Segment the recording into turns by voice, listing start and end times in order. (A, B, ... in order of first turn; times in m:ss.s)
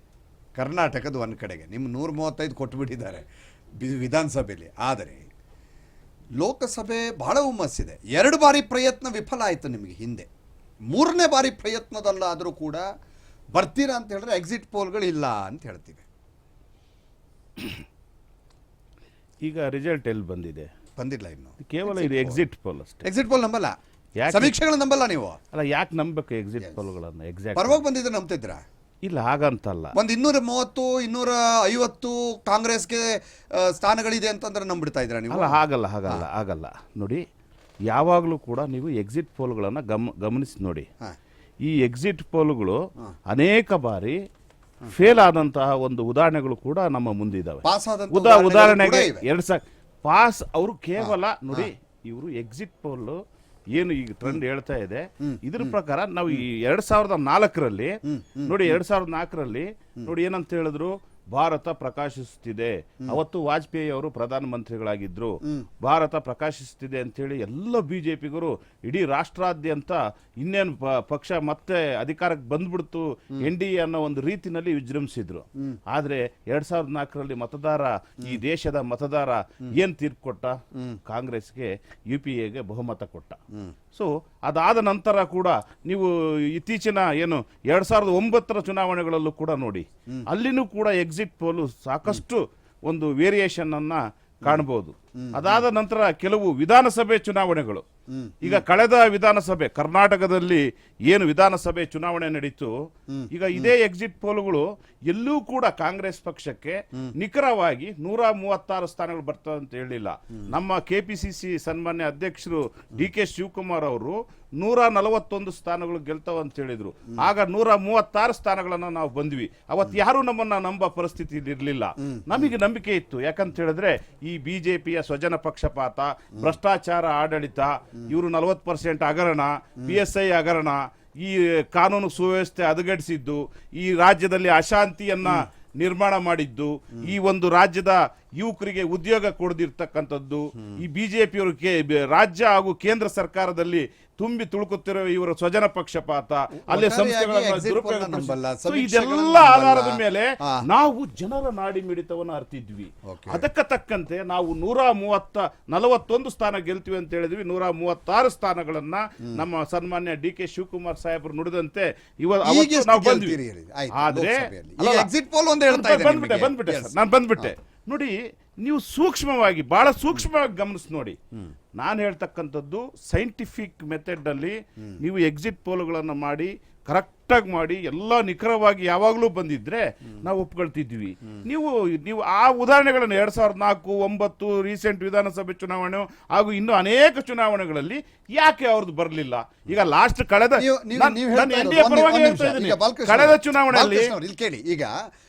0:00.6-0:03.2 A
0:03.8-0:05.3 A
0:06.4-0:10.3 A
0:10.9-0:12.8 A
0:13.6-0:16.0 A
0:19.4-0:20.7 B
0:21.0-0:22.4 A
0:21.6-0:23.0 B
0:23.0-0:25.4 A
0:24.2-0:24.6 B
0:25.5-0:27.8 B
0:27.6-0:28.6 A
0:29.0-0:29.9 B
0:29.9-0:36.2 A
0:35.3-0:37.2 B
0:37.9-0:40.9 B
0:41.6-0:44.2 B
0:44.9-0:53.2 B
0:47.6-0:49.2 A
0:51.0-0:51.7 A
0:53.7-1:23.4 B
0:55.2-0:55.7 A
0:58.1-0:58.8 A
1:23.9-1:37.8 B
1:35.2-1:35.6 A
1:38.1-1:38.6 A
1:38.4-1:42.7 B
1:43.1-1:43.7 A
1:43.3-2:43.4 B
2:26.7-2:30.7 A
2:33.1-2:33.4 A
2:42.4-2:47.5 A
2:43.9-2:45.1 B
2:45.7-2:51.2 B
2:51.8-3:14.1 B
3:10.6-3:14.9 A